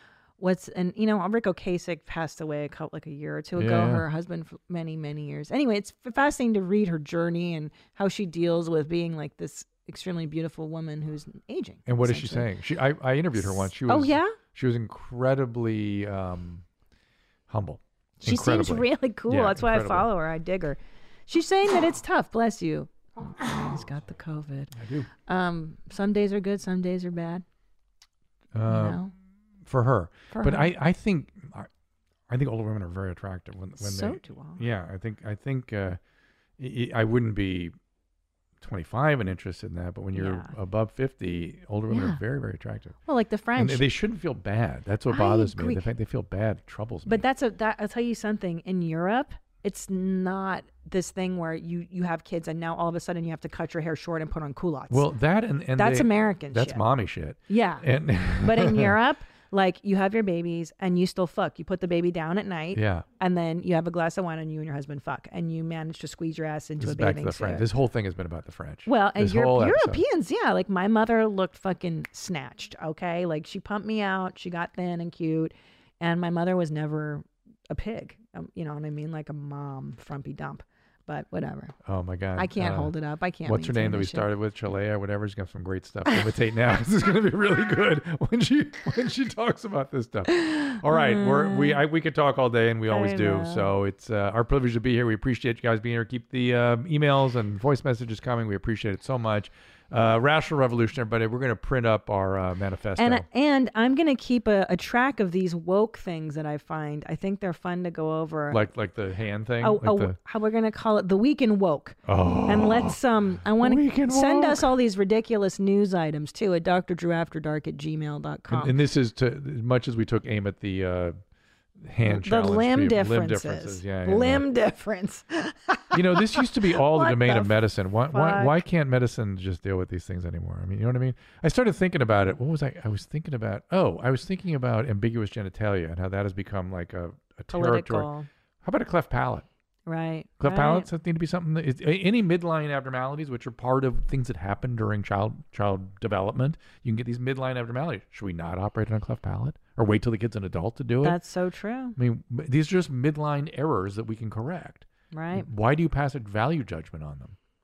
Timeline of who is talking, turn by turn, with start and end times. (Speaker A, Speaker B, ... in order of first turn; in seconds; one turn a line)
Speaker A: 0.4-12.5
Speaker B: 3.6-4.1
Speaker B: 11.9-16.6
Speaker A: 13.4-14.4
Speaker B: 17.5-20.1
Speaker A: 18.2-24.7
Speaker B: 24.7-25.1
Speaker A: 25.3-27.4
Speaker B: 28.5-29.0
Speaker A: 28.7-29.1
Speaker B: 29.7-31.7
Speaker A: 30.3-30.7
Speaker B: 32.3-36.0
Speaker A: 33.8-34.6
Speaker B: 36.6-37.7
Speaker B: 38.6-43.0
Speaker A: 40.1-40.5
Speaker A: 41.9-42.2
Speaker A: 43.1-43.9
Speaker B: 43.6-47.2
Speaker A: 45.1-45.8
Speaker A: 47.1-55.1
Speaker B: 54.9-59.0
Speaker A: 55.8-56.8
Speaker A: 57.5-57.9
Speaker A: 58.4-67.7
Speaker B: 62.7-63.1
Speaker B: 66.8-70.0
Speaker A: 68.9-81.7
Speaker B: 81.8-82.9
Speaker A: 82.4-84.3
Speaker B: 83.4-103.2
Speaker A: 90.4-91.8
Speaker A: 92.9-93.7
Speaker A: 103.0-108.6
Speaker B: 108.5-110.2
Speaker A: 109.6-118.8
Speaker B: 112.1-114.7
Speaker B: 118.5-121.2
Speaker B: 121.8-124.4
Speaker A: 122.0-128.6
Speaker B: 125.9-138.1
Speaker A: 137.5-138.3
Speaker B: 138.6-139.4
Speaker A: 139.9-140.9
Speaker B: 140.4-151.2
Speaker A: 151.0-152.0
Speaker B: 152.0-157.4
Speaker A: 155.1-155.5